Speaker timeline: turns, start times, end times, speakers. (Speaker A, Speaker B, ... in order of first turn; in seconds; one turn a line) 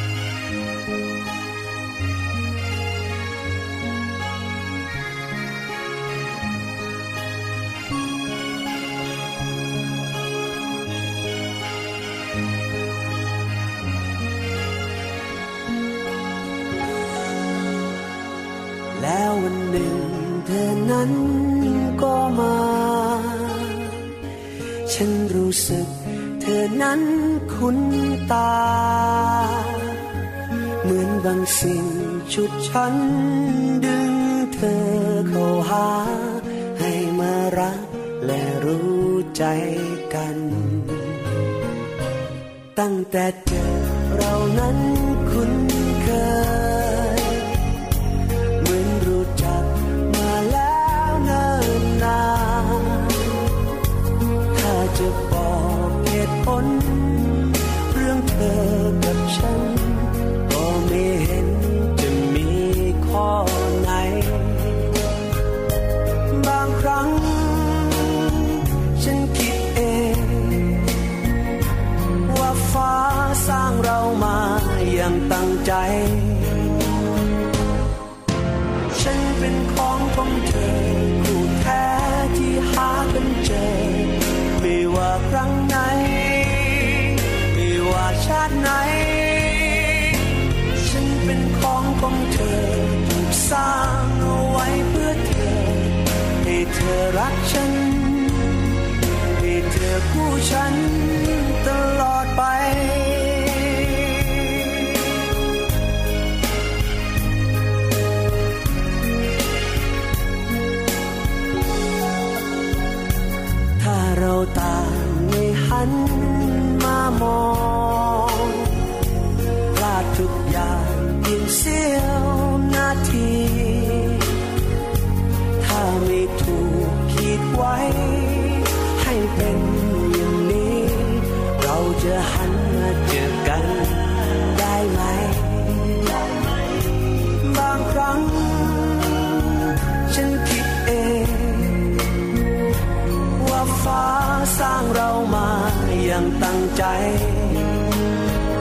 Speaker A: 18.9-24.1
Speaker A: 24.9-30.0
Speaker A: 30.8-41.3
Speaker A: 42.8-47.6
Speaker A: 48.6-53.4
Speaker A: 54.5-65.0
Speaker A: 66.3-70.9
Speaker A: 72.2-77.0
Speaker A: 78.9-98.8
Speaker A: 99.3-105.0
Speaker A: 113.8-118.8
Speaker A: 119.7-124.3
Speaker A: 125.6-142.0
Speaker A: 143.3-147.9